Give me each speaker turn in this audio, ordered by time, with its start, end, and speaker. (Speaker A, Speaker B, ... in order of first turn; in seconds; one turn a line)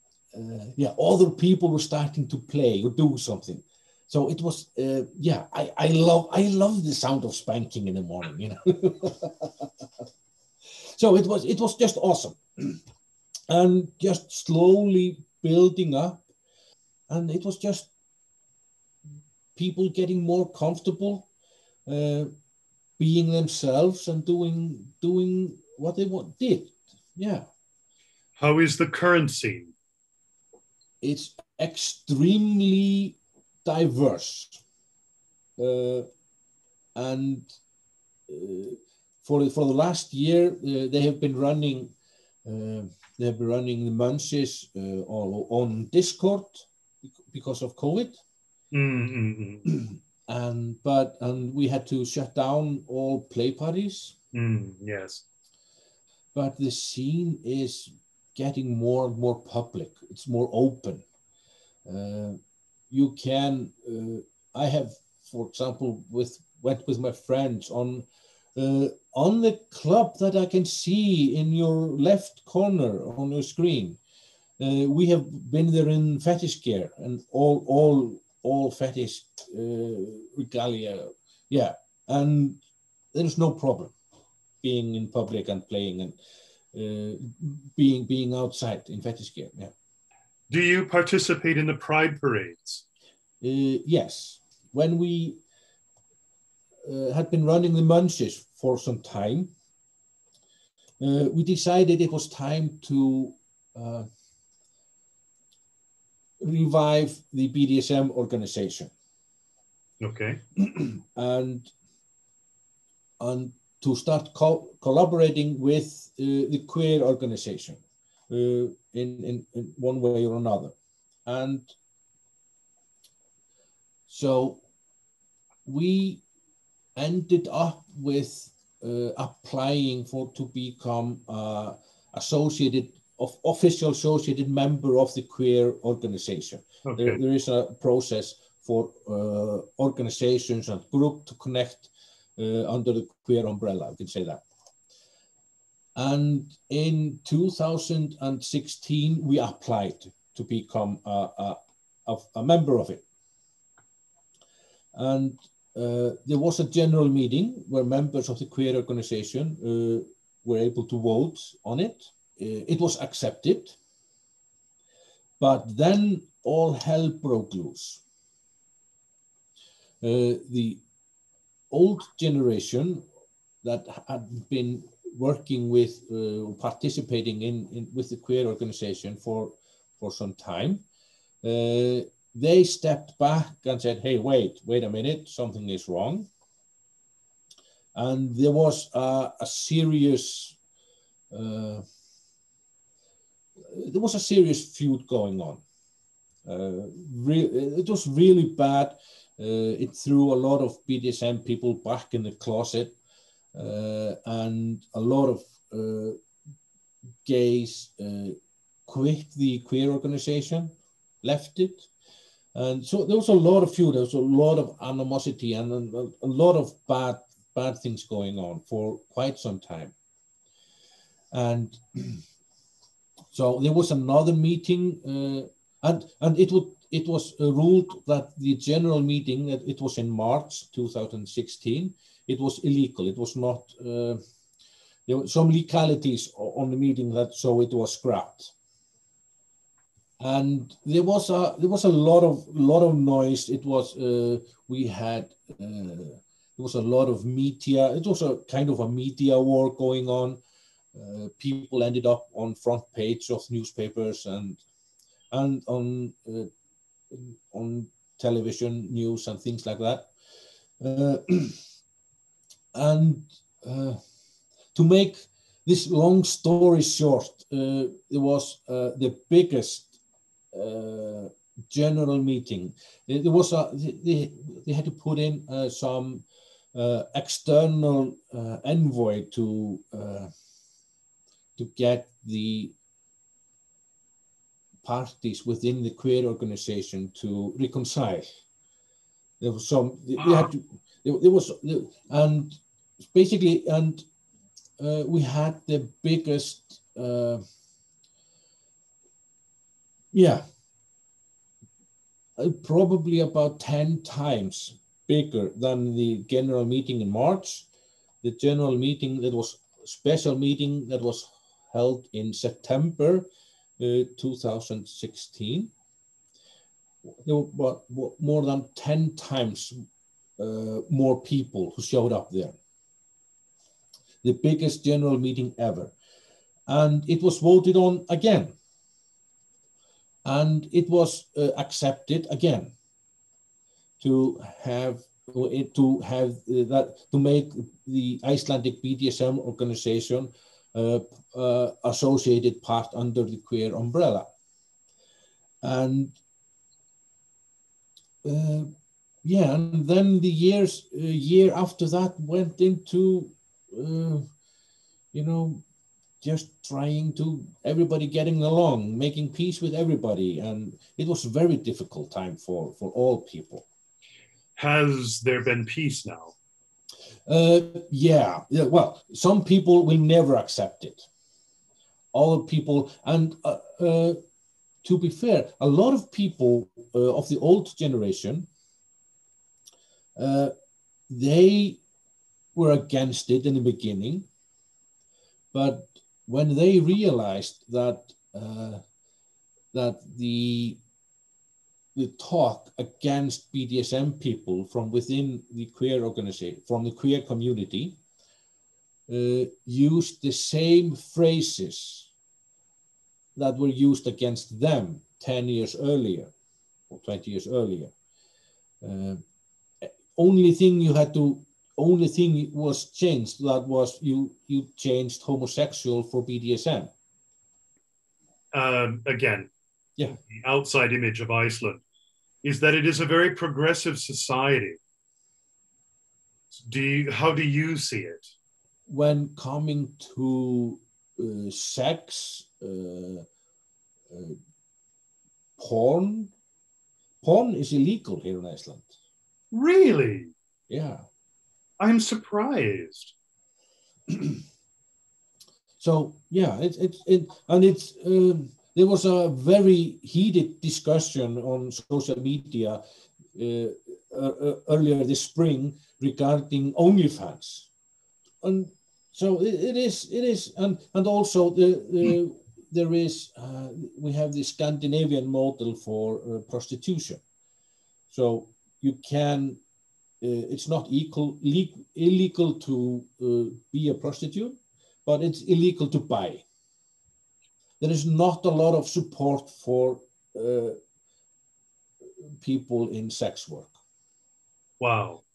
Speaker A: 0.3-9.7
Speaker A: 10.8-12.8
Speaker A: 13.5-16.3
Speaker A: 17.1-17.9
Speaker A: 19.6-21.3
Speaker A: 21.9-22.3
Speaker A: 23.0-27.5
Speaker B: 28.4-29.7
Speaker A: 31.0-34.6
Speaker A: 35.6-36.1
Speaker A: 37.0-37.5
Speaker A: 38.3-41.9
Speaker A: 42.5-46.7
Speaker A: 47.3-48.2
Speaker B: 48.7-49.7
Speaker A: 49.7-54.2
Speaker B: 54.3-55.2
Speaker A: 56.3-61.0
Speaker A: 61.9-62.4
Speaker A: 62.9-68.0
Speaker A: 68.6-74.0
Speaker A: 74.6-82.6
Speaker A: 83.1-83.9
Speaker A: 84.6-86.2
Speaker A: 86.7-89.7
Speaker B: 90.5-92.8
Speaker A: 93.4-95.4
Speaker A: 96.8-99.5
Speaker A: 101.0-104.1
Speaker A: 106.4-108.9
Speaker B: 110.0-110.4
Speaker A: 110.6-111.7
Speaker A: 113.2-120.8
Speaker A: 121.3-121.7
Speaker A: 124.1-124.6
Speaker A: 125.7-126.2
Speaker A: 127.0-144.4
Speaker B: 136.9-137.2
Speaker A: 146.0-153.0
Speaker A: 154.9-163.8
Speaker A: 165.4-168.0
Speaker A: 170.0-170.8
Speaker A: 171.7-173.0
Speaker A: 173.6-180.8
Speaker A: 181.4-186.3
Speaker A: 187.9-190.6
Speaker A: 191.3-191.8
Speaker A: 193.7-195.6
Speaker A: 196.4-202.9
Speaker A: 203.5-206.2
Speaker A: 207.2-211.9
Speaker A: 212.5-219.9
Speaker A: 221.3-222.2
Speaker A: 223.3-234.2
Speaker A: 235.1-238.5
Speaker A: 240.2-250.4
Speaker A: 250.9-254.6
Speaker A: 255.3-256.5
Speaker A: 257.1-260.1
Speaker A: 260.8-261.6
Speaker A: 262.7-264.0
Speaker A: 264.7-270.0
Speaker A: 270.5-280.3
Speaker A: 281.6-282.8
Speaker A: 284.8-288.4
Speaker A: 289.4-294.1
Speaker A: 294.8-297.4
Speaker A: 300.1-300.4
Speaker A: 302.4-307.7
Speaker A: 308.2-313.3
Speaker A: 313.8-315.7
Speaker A: 317.1-319.8
Speaker A: 320.4-322.6
Speaker A: 324.2-325.9
Speaker A: 326.7-328.5
Speaker A: 330.2-332.7
Speaker A: 334.0-344.3
Speaker A: 345.6-346.2
Speaker A: 348.2-348.7
Speaker A: 349.2-354.3
Speaker A: 355.1-355.6
Speaker A: 356.2-363.7
Speaker B: 364.6-366.3
Speaker A: 367.3-371.1
Speaker A: 372.1-374.2
Speaker A: 374.8-378.5
Speaker A: 380.2-380.5
Speaker A: 381.1-381.8
Speaker A: 382.6-384.3
Speaker A: 385.5-388.8
Speaker A: 389.7-390.8
Speaker A: 391.9-398.0
Speaker A: 399.1-402.1
Speaker A: 403.4-406.3
Speaker A: 406.9-407.9
Speaker A: 408.8-409.2
Speaker A: 409.8-416.9
Speaker B: 418.5-419.5
Speaker B: 420.3-421.8
Speaker B: 422.4-424.8
Speaker B: 426.5-428.3
Speaker A: 428.9-433.3
Speaker A: 434.1-434.4
Speaker A: 435.6-436.3
Speaker A: 437.2-438.9
Speaker B: 439.5-440.3
Speaker A: 440.7-441.0
Speaker B: 441.8-443.1
Speaker A: 444.1-444.4
Speaker A: 445.8-452.8
Speaker A: 453.3-457.7
Speaker A: 458.4-467.2
Speaker A: 468.1-469.6
Speaker A: 470.2-476.4
Speaker A: 477.8-480.8
Speaker A: 482.4-483.8
Speaker B: 484.8-485.2